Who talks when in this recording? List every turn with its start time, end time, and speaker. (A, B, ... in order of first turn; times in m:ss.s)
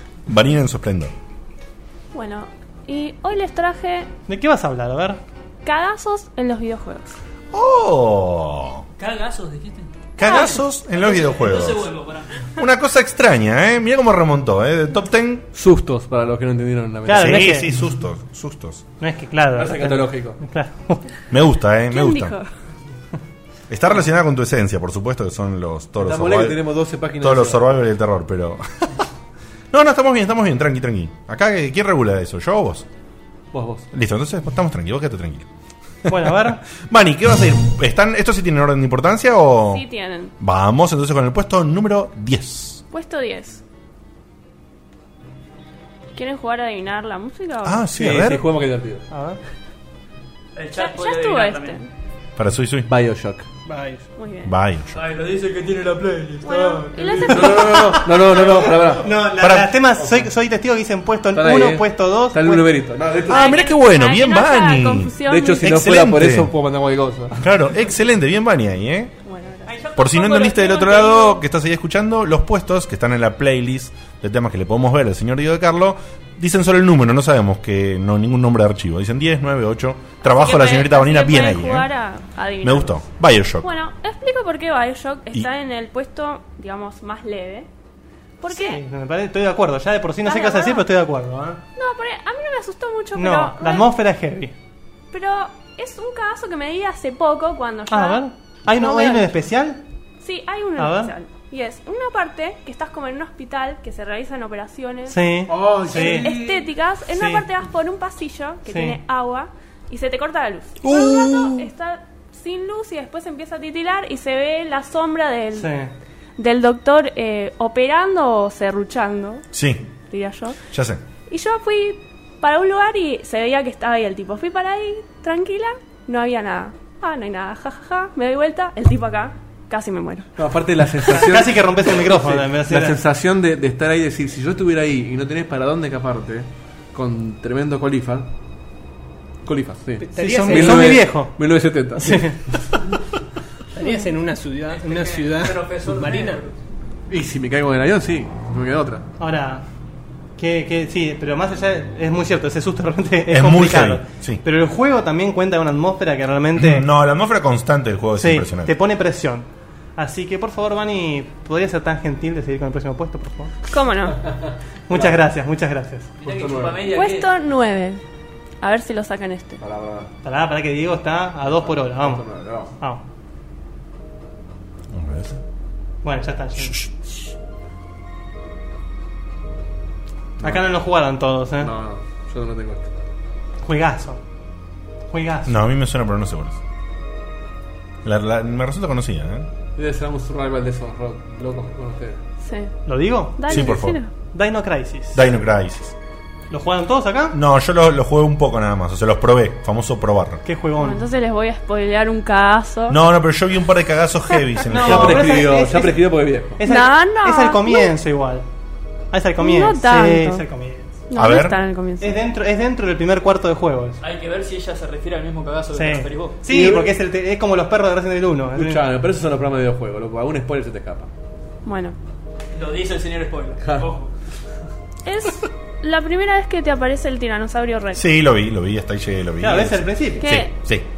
0:00.3-0:01.1 A
0:02.1-0:04.1 B
0:04.3-0:05.2 C
0:05.6-0:07.1 B
0:07.5-0:08.8 A
0:09.0-0:09.9 D
0:10.2-0:11.9 A
0:10.2-0:10.6 B
0:10.9-0:12.5 D
0:12.6-0:15.5 A
0:15.5-0:17.6 E
0:17.0-0:17.7 C
0:17.1-0:18.8 A
0:19.0-0:21.0 C
0:19.5-0:20.4 E
0:21.3-0:22.4 A
0:21.9-0:22.5 B
0:23.7-0:26.6 A
0:26.0-0:27.6 E
0:27.2-0:29.0 A
0:29.7-0:32.8 A
0:33.5-0:33.9 E
0:33.9-0:35.5 A
0:36.0-0:39.8 A
0:36.1-0:36.6 C
0:39.7-0:40.3 B
0:40.4-0:42.8 A
0:42.9-0:43.6 B
0:46.1-0:47.9 B
0:47.6-0:48.4 A
0:47.9-0:49.0 E
0:49.1-0:49.4 C
0:50.6-0:51.8 D
0:50.7-0:51.9 B
0:52.4-0:52.9 A
0:52.9-0:53.4 E
0:53.6-0:54.1 F
0:54.1-0:54.6 B
0:54.4-0:55.0 A
0:54.9-0:57.5 D
0:56.4-0:57.8 B
0:57.3-0:59.2 E
0:57.7-0:58.1 C
0:59.0-1:02.7 C
0:59.4-0:59.8 A
1:00.0-1:00.2 E
1:01.3-1:03.5 E
1:03.3-1:05.6 B
1:03.3-1:06.5 A
1:05.3-1:07.4 E
1:07.3-1:09.1 A
1:09.2-1:09.8 B
1:09.7-1:11.2 D
1:10.0-1:21.9 A
1:20.2-1:23.0 B
1:22.6-1:23.6 A
1:23.6-1:27.7 B
1:28.4-1:28.8 B
1:28.5-1:31.6 C
1:30.2-1:30.8 B
1:31.8-1:33.9 B
1:33.1-1:34.5 C
1:35.1-1:39.3 B
1:37.9-1:39.8 C
1:40.2-1:45.2 B
1:40.8-1:41.1 C
1:45.1-1:46.3 C
1:45.5-1:46.7 E
1:45.9-1:55.7 B
1:47.1-1:47.4 C
1:48.6-1:49.0 C
1:50.8-1:51.7 A
1:55.6-1:55.9 C
1:56.4-1:59.5 B
1:59.5-1:59.8 A
2:00.1-2:00.6 B
2:00.7-2:01.0 A
2:01.3-2:10.3 B
2:10.4-2:18.3 E
2:11.1-2:13.0 C
2:19.4-2:22.8 E
2:20.0-2:21.0 F
2:20.1-2:21.4 C
2:21.9-2:22.4 C
2:23.7-2:26.4 F
2:24.8-2:26.5 D
2:27.1-2:29.0 E
2:29.2-2:29.6 C
2:30.4-2:36.8 C
2:33.3-2:34.4 A
2:36.6-2:38.7 A
2:38.2-2:43.5 C
2:43.7-2:44.3 B
2:44.3-2:45.2 E
2:44.9-2:46.1 C
2:46.2-2:47.3 D
2:46.2-2:46.8 E
2:46.9-2:48.0 B
2:48.6-2:49.6 B
2:49.6-2:50.1 E
2:50.2-2:52.2 C
2:51.6-2:52.7 E
2:52.8-2:53.0 C
2:54.9-2:55.3 A
2:56.0-2:56.8 C
3:00.4-3:01.7 C
3:01.6-3:02.9 E
3:03.6-3:04.2 C
3:05.1-3:05.6 C
3:05.4-3:06.6 A
3:08.0-3:09.5 A
3:09.8-3:12.2 E
3:12.4-3:12.7 B
3:12.8-3:13.7 C
3:13.4-3:14.1 B
3:13.5-3:14.0 A
3:14.3-3:15.2 C
3:15.1-3:15.9 A
3:16.5-3:17.4 C
3:17.3-3:20.4 A
3:20.4-3:21.0 C
3:20.8-3:23.0 B
3:22.9-3:25.4 A
3:24.7-3:26.0 C
3:24.8-3:26.6 E
3:26.6-3:28.4 C
3:26.6-3:27.9 B
3:29.1-3:31.0 C
3:29.4-3:30.4 B
3:31.1-3:32.2 B
3:31.1-3:31.6 A
3:32.0-3:34.0 C
3:34.0-3:36.4 D
3:35.7-3:38.8 C
3:36.5-3:36.9 E
3:38.5-3:41.1 E
3:41.6-3:42.0 B
3:42.5-3:44.1 D
3:45.0-3:48.0 B
3:47.9-3:50.8 A
3:49.4-3:50.3 C
3:50.2-3:50.5 B